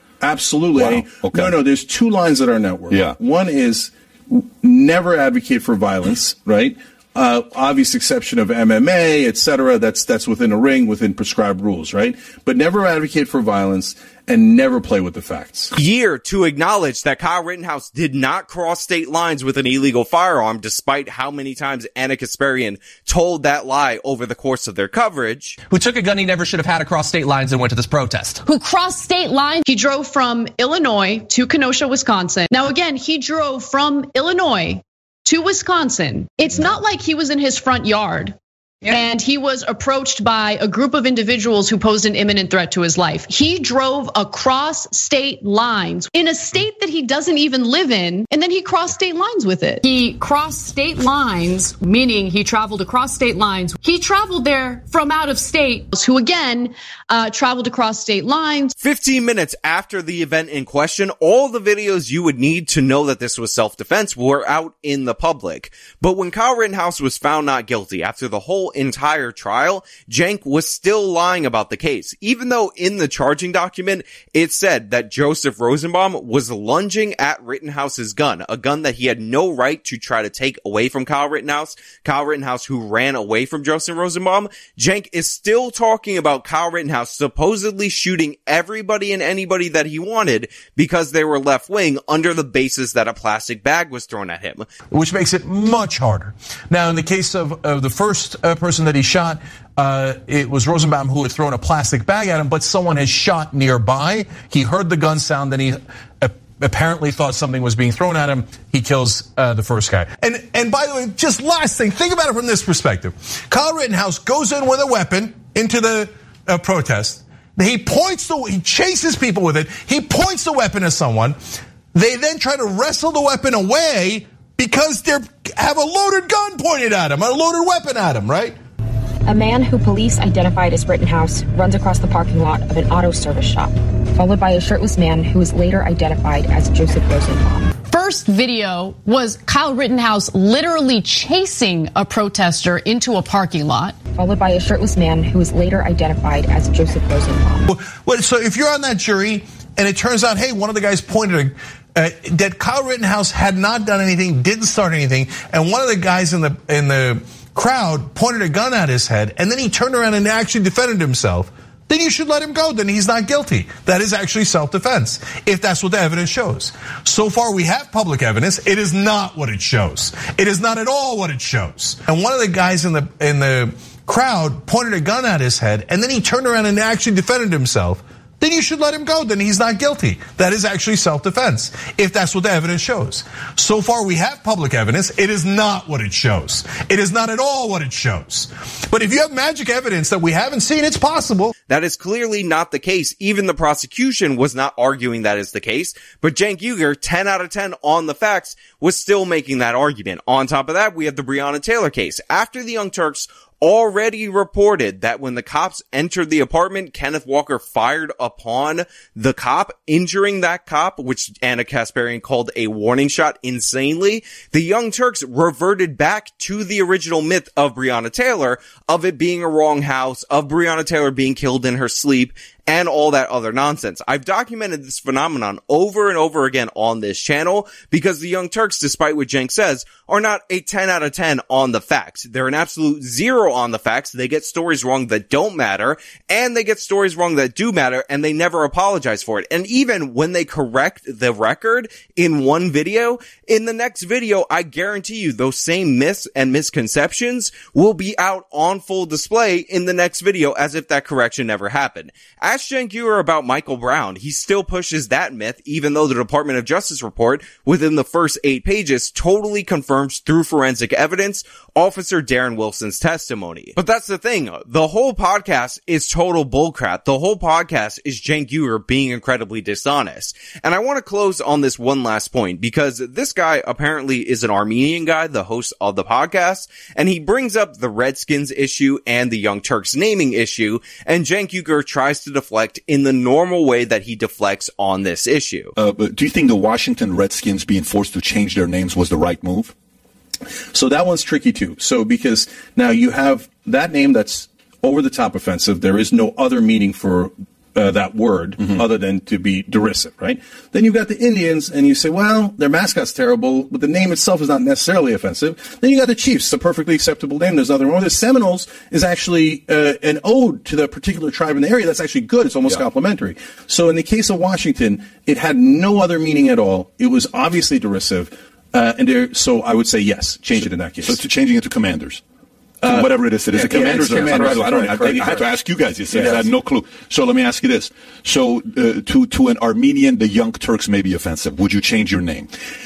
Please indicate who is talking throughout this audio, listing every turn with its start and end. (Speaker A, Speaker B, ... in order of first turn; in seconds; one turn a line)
Speaker A: 0.2-15.7
Speaker B: 0.8-1.6
Speaker B: 2.9-3.1
Speaker C: 15.7-25.6
Speaker D: 25.7-28.4
Speaker E: 28.4-58.7
Speaker C: 58.8-94.7
Speaker F: 94.9-121.4
Speaker F: 121.9-128.6
Speaker G: 129.3-137.7
Speaker E: 137.9-143.9
Speaker G: 144.2-147.7
Speaker F: 147.7-191.5
Speaker C: 191.7-285.7
Speaker B: 285.8-289.7
Speaker A: 290.7-321.2
Speaker B: 320.5-322.2
Speaker A: 322.8-325.5
Speaker B: 322.8-332.5
Speaker A: 326.1-326.4